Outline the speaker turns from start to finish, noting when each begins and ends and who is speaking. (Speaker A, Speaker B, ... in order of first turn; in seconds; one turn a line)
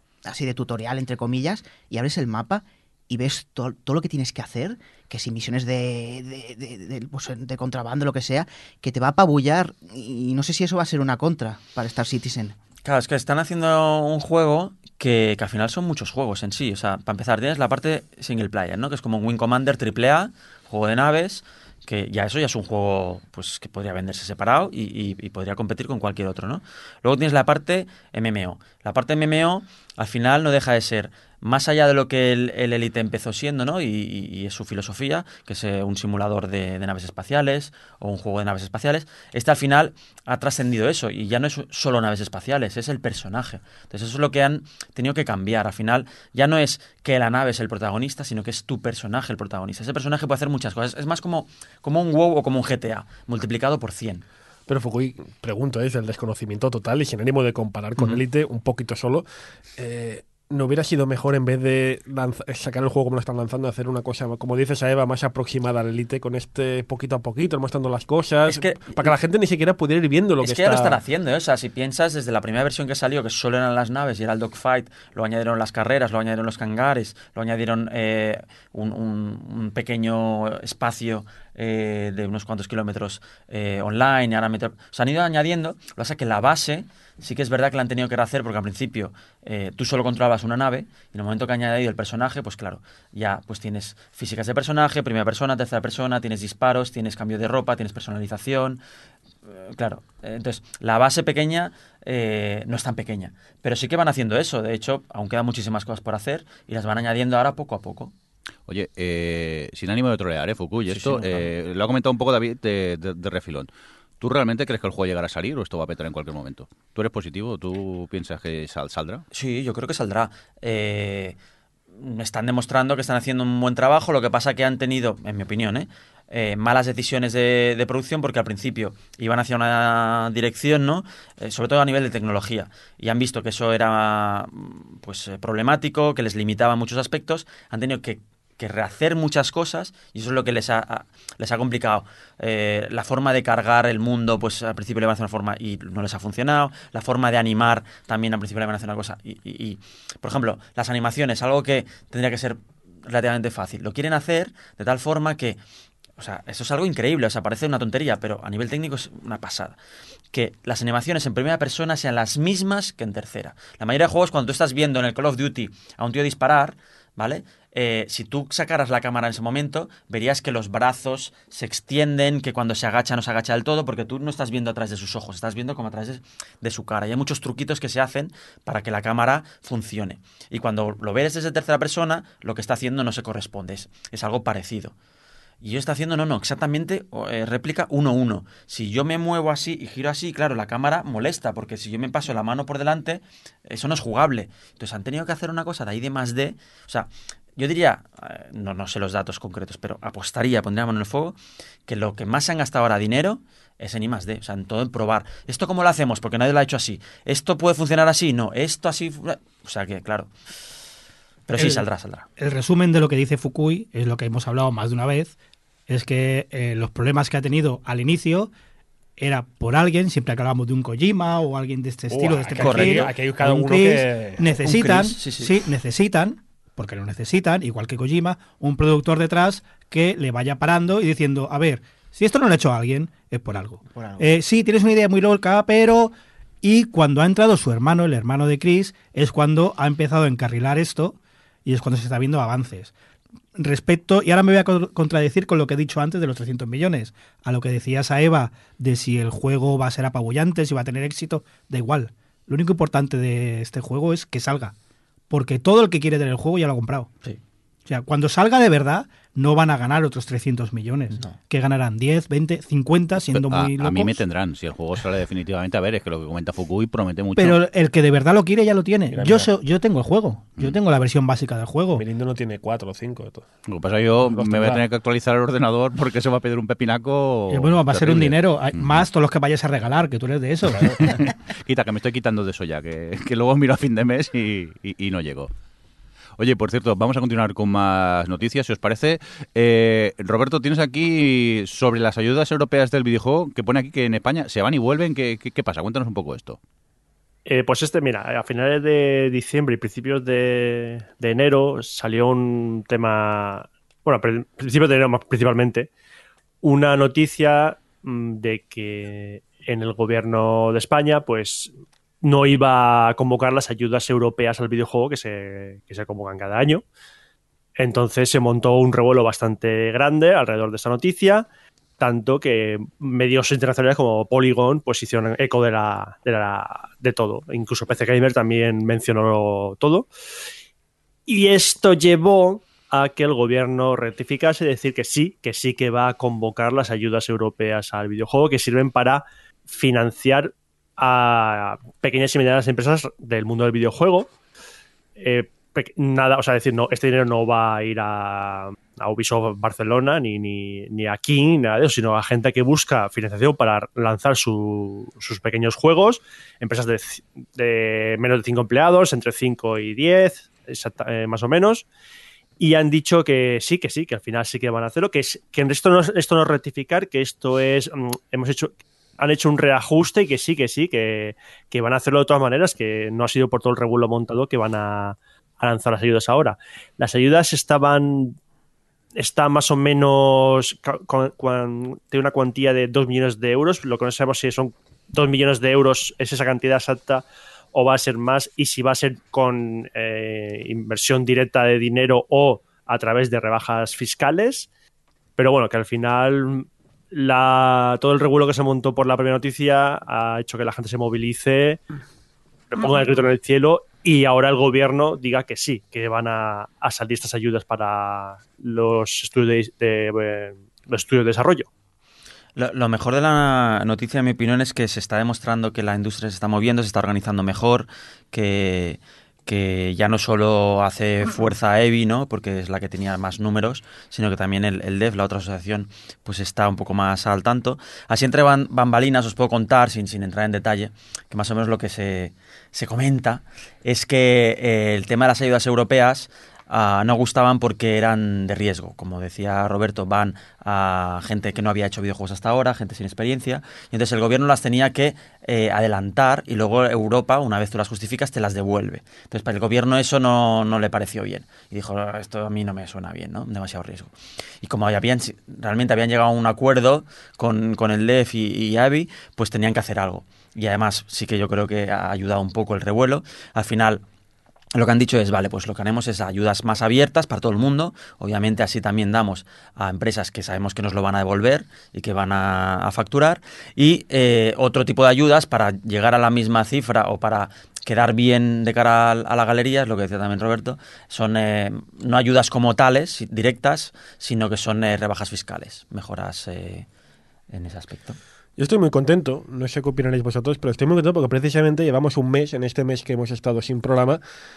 Speaker A: 0.2-12.6
Speaker B: 12.8-54.2
Speaker C: 54.7-59.2
Speaker C: 59.8-71.0
Speaker B: 68.4-69.1
Speaker B: 70.4-98.8
Speaker B: 99.5-108.1
Speaker D: 108.7-113.7
Speaker B: 110.9-111.5
Speaker D: 114.2-119.2
Speaker B: 119.3-121.4
Speaker B: 122.0-155.6
Speaker B: 156.2-159.8
Speaker B: 160.3-184.9
Speaker B: 185.6-210.3
Speaker B: 211.5-212.3
Speaker E: 211.6-211.8
Speaker E: 212.4-215.3
Speaker E: 215.9-218.5
Speaker E: 219.2-242.9
Speaker C: 222.1-224.5
Speaker B: 222.6-223.1
Speaker B: 224.6-225.6
Speaker A: 233.9-234.3
Speaker E: 243.6-254.7
Speaker E: 255.3-257.1
Speaker E: 257.9-264.2
Speaker D: 263.3-267.6
Speaker E: 267.4-272.0
Speaker C: 269.1-269.5
Speaker C: 271.9-273.5
Speaker D: 273.6-279.0
Speaker C: 274.2-274.8
Speaker E: 277.5-281.1
Speaker D: 280.9-285.5
Speaker D: 286.4-296.6
Speaker F: 297.4-305.9
Speaker F: 306.6-311.7
Speaker F: 312.2-316.8
Speaker F: 317.8-321.4
Speaker F: 322.0-330.1
Speaker F: 331.3-344.3
Speaker F: 345.2-361.9
Speaker F: 362.6-378.4
Speaker F: 379.2-394.7
Speaker F: 395.4-401.8
Speaker F: 402.7-411.7
Speaker B: 412.6-464.0
Speaker B: 464.7-486.9
Speaker B: 487.5-488.2
Speaker C: 488.6-494.2